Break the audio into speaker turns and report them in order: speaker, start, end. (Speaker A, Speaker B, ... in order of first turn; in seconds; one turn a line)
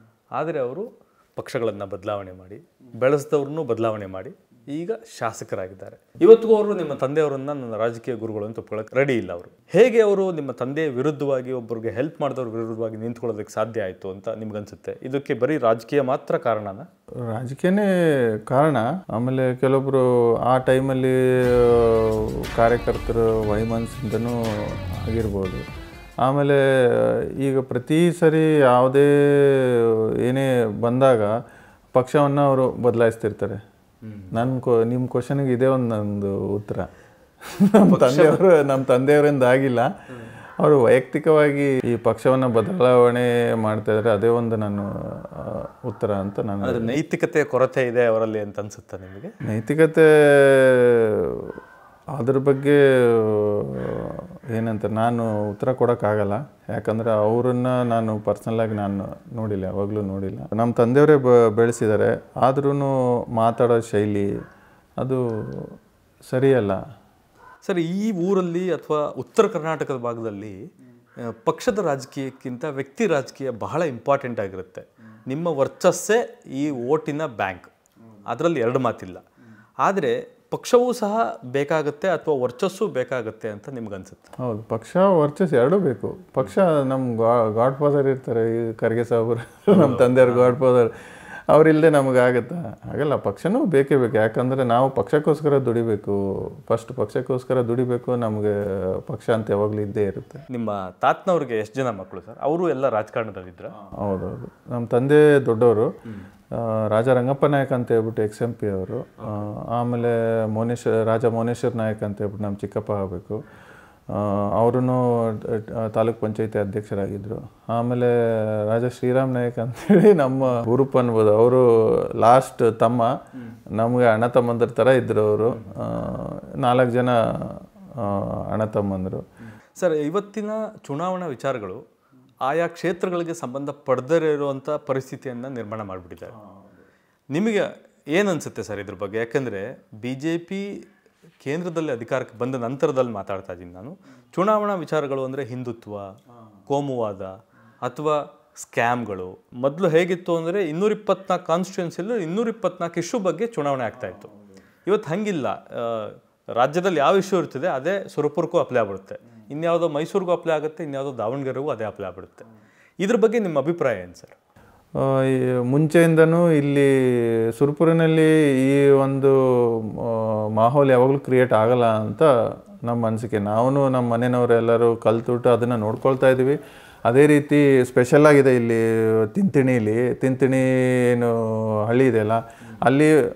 Speaker A: 0.4-16.9
Speaker B: 17.3-17.9
Speaker B: 18.5-25.6
Speaker B: 26.2-31.3
Speaker B: 31.9-33.6
Speaker A: 34.0-34.4
Speaker B: 34.3-36.9
Speaker B: 37.5-39.9
Speaker A: 37.9-38.4
Speaker B: 40.6-46.9
Speaker A: 46.6-49.3
Speaker B: 49.4-51.6
Speaker B: 52.2-64.3
Speaker B: 65.0-65.8
Speaker B: 66.3-66.8
Speaker A: 67.6-70.6
Speaker A: 71.2-77.7
Speaker A: 78.3-79.2
Speaker A: 79.8-84.3
Speaker B: 84.4-90.9
Speaker A: 89.7-90.6
Speaker B: 91.5-100.4
Speaker A: 100.5-103.7
Speaker B: 103.8-105.9
Speaker B: 106.5-113.4
Speaker A: 109.2-109.5
Speaker B: 114.1-123.1
Speaker B: 123.8-129.2
Speaker A: 129.8-131.8
Speaker A: 132.4-136.3
Speaker A: 137.3-140.8
Speaker A: 141.4-146.1
Speaker A: 146.7-154.3
Speaker A: 154.9-162.5
Speaker A: 163.0-164.4
Speaker B: 165.0-172.3
Speaker B: 172.9-183.1